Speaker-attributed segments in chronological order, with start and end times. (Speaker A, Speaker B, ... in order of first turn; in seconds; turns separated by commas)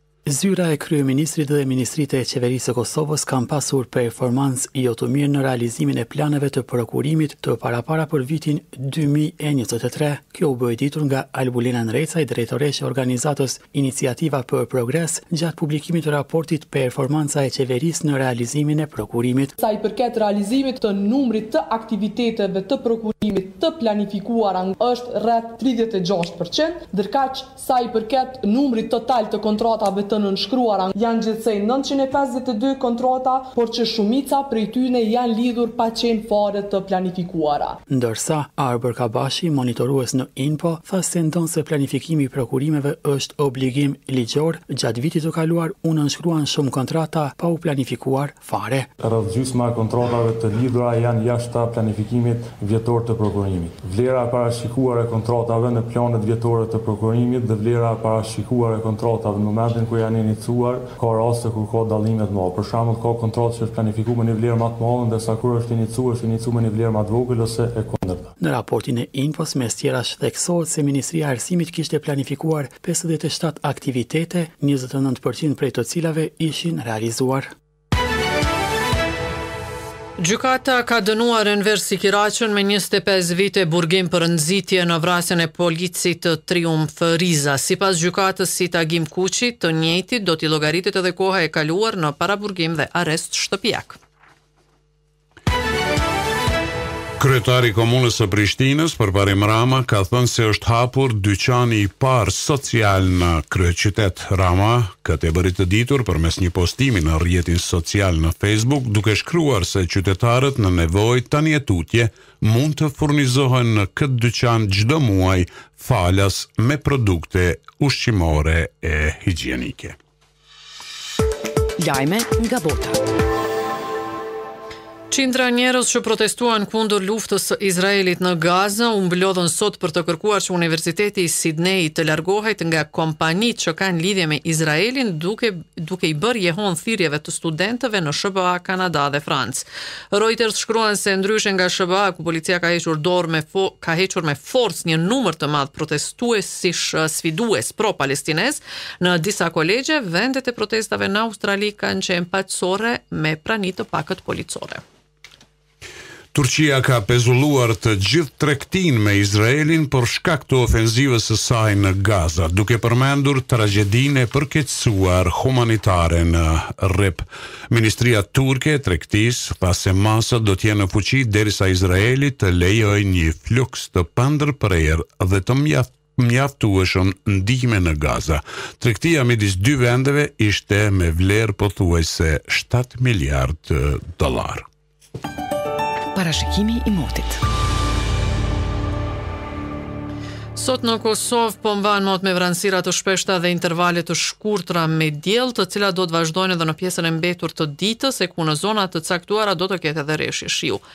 Speaker A: 0.3-19.6, Speaker B: 19.6-37.8, Speaker A: 37.9-48.9, Speaker C: 49.0-68.3, Speaker A: 68.4-77.5, Speaker D: 80.2-94.0, Speaker E: 97.2-120.0, Speaker F: 121.9-122.9, Speaker D: 125.1-154.8, Speaker E: 156.3-184.7, Speaker F: 186.2-187.3, Speaker D: 190.6-200.8